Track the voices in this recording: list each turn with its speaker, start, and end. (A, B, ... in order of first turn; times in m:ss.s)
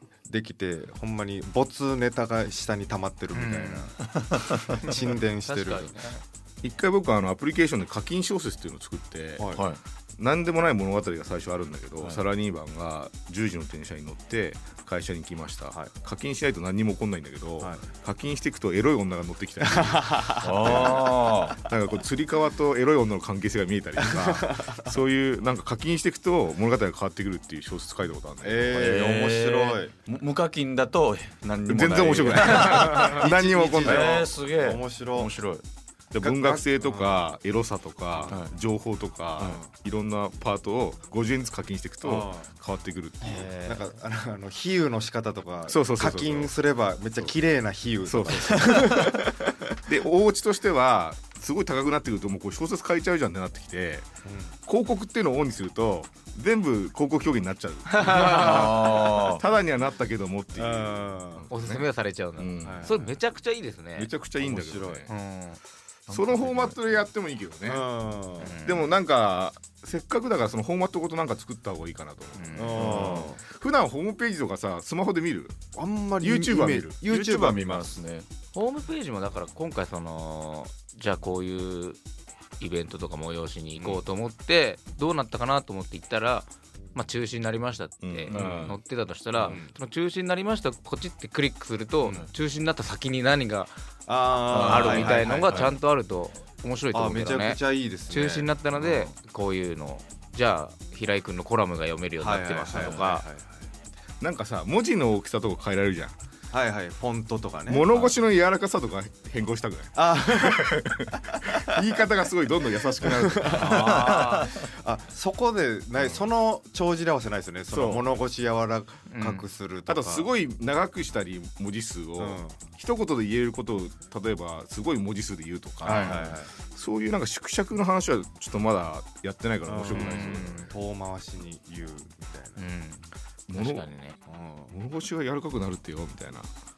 0:00.3-0:05.9 A
0:03.3-0:03.9 B
0:04.2-0:04.6 C
0:04.7-0:06.2 B
0:06.6-0:09.5 D
0:09.4-0:09.6 A
0:09.5-0:09.8 C
0:10.2-0:20.9 D
0:19.6-0:21.1 A
0:20.4-0:21.6 C
0:21.6-0:28.9 D
0:24.0-0:24.9 A
0:28.4-0:29.9 A
0:28.7-0:35.6 C
0:31.7-0:34.2 D
0:32.5-0:35.3 A
0:36.1-0:43.5 D
0:36.2-0:37.3 A
0:38.3-0:38.5 C
0:42.0-0:42.5 A
0:43.3-0:43.9 C
0:43.5-0:49.6 A
0:45.7-0:46.5 D
0:48.0-0:49.1 D
0:49.8-0:54.1 D
0:54.2-0:54.5 A
0:54.6-1:03.1 D
0:57.9-0:58.7 A
0:58.1-0:59.4 C
1:00.5-1:01.4 A
1:01.5-1:04.1 B
1:02.6-1:03.1 A
1:04.0-1:05.1 D
1:04.4-1:05.0 A
1:05.1-1:05.6 B
1:06.1-1:06.8 C
1:06.1-1:07.9 D
1:07.6-1:08.6 A
1:08.4-1:08.9 B
1:08.6-1:15.6 D
1:12.4-1:13.1 B
1:12.5-1:13.4 A
1:15.7-1:17.9 A
1:16.2-1:16.9 D
1:17.0-1:18.3 C
1:18.5-1:22.0 B
1:22.6-1:33.7 B
1:28.0-1:28.8 D
1:28.3-1:28.7 C
1:29.4-1:29.7 A
1:34.1-1:35.6 A
1:34.5-1:35.7 C
1:34.6-1:43.2 B
1:36.9-1:38.5 A
1:42.2-1:43.7 A
1:42.7-1:43.0 C
1:44.2-1:46.1 D
1:46.5-1:48.1 A
1:47.7-1:54.2 D
1:49.9-1:51.8 A
1:53.0-2:00.3 A
1:53.8-1:54.4 C
1:57.7-1:58.1 D
1:59.1-1:59.5 B
1:59.9-2:10.7 D
2:02.2-2:02.6 A
2:05.8-2:06.5 A
2:05.9-2:06.2 B
2:09.6-2:12.6 A
2:09.9-2:10.7 B
2:12.6-2:14.2 B
2:13.5-2:13.9 D
2:14.3-2:14.8 A
2:14.7-2:16.5 D